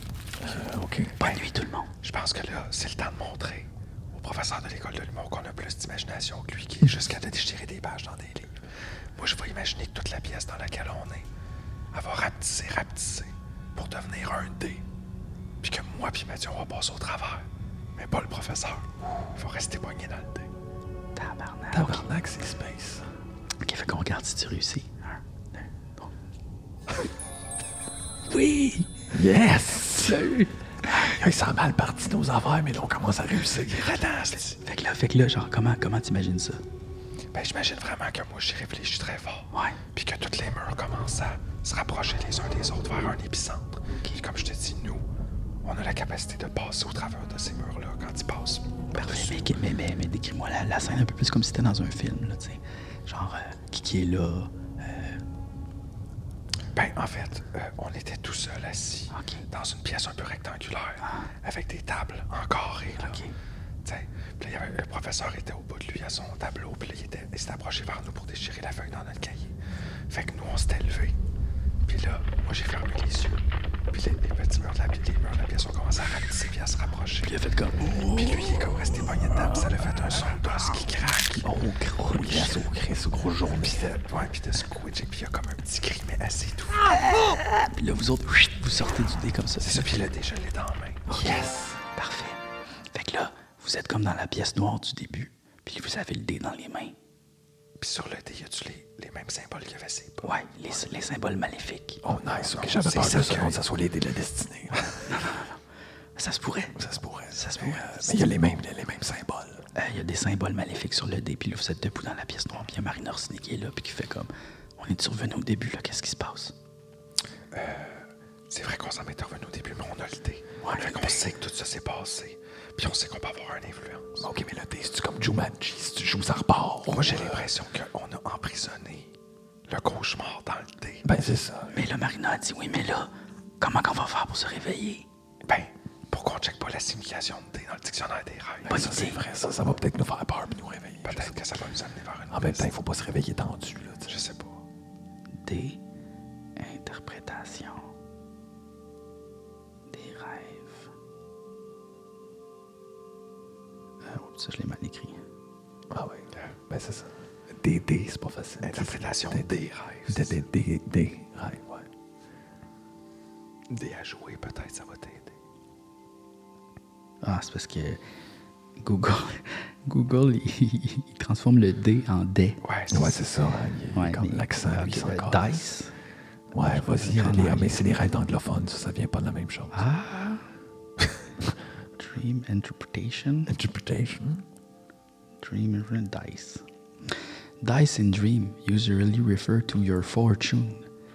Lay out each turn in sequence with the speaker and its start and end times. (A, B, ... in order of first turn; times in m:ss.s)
0:00.4-0:01.3 A
0:01.2-0:01.9 B
0:02.0-0:08.6 C
0:09.2-0:11.3 C
0:11.9-0:14.8 C
0:15.6-0:20.5 C
0:21.2-0:22.1 B
0:21.7-0:23.1 A
0:23.6-0:26.1 B
0:28.3-0:29.1 B
0:29.1-0:34.0 A
0:30.0-0:31.3 B
0:33.7-0:34.6 C
0:34.6-0:36.6 B
0:37.3-0:45.0 C
0:39.5-0:39.8 B
0:45.6-0:49.4 C
0:48.9-0:55.2 B
0:56.7-1:03.2 C
0:59.1-0:59.4 B
1:01.0-1:01.3 B
1:03.0-1:03.4 B
1:03.8-1:09.6 C
1:10.1-1:11.2 C
1:11.9-1:17.4 C
1:17.2-1:19.6 B
1:17.9-1:21.5 C
1:21.3-1:22.6 B
1:22.2-1:24.0 A
1:23.6-1:27.0 C
1:26.8-1:29.9 B
1:29.6-1:31.5 C
1:31.1-1:37.0 B
1:37.8-1:40.3 C
1:40.2-1:42.0 B
1:42.0-1:44.9 A
1:42.4-1:43.6 C
1:45.1-1:45.6 B
1:46.2-1:48.3 B
1:46.8-1:49.6 A
1:49.8-1:56.6 B
1:57.5-2:04.2 C
2:00.6-2:01.2 B
2:04.2-2:07.5 A
2:06.9-2:09.1 C
2:09.7-2:11.0 C
2:11.0-2:11.8 A
2:11.7-2:15.1 B
2:15.4-2:18.8 C
2:18.6-2:21.4 A
2:18.7-2:19.2 B
2:21.0-2:22.7 C
2:22.3-2:24.2 A
2:24.1-2:24.6 C
2:25.4-2:25.8 B
2:26.6-2:27.9 B
2:29.9-2:30.9 B
2:34.0-2:35.2 B
2:35.9-2:39.6 A
2:38.6-2:40.4 C
2:40.1-2:41.9 A
2:43.7-2:45.4 C
2:47.2-2:48.0 B
2:48.8-2:52.6 B
2:52.6-2:53.2 C
2:52.9-2:55.7 A
2:53.9-2:55.9 B
2:56.5-2:59.8 A
2:56.6-2:57.9 B
2:59.7-3:00.5 B
3:02.0-3:03.5 B
3:03.5-3:04.5 A
3:05.4-3:10.9 B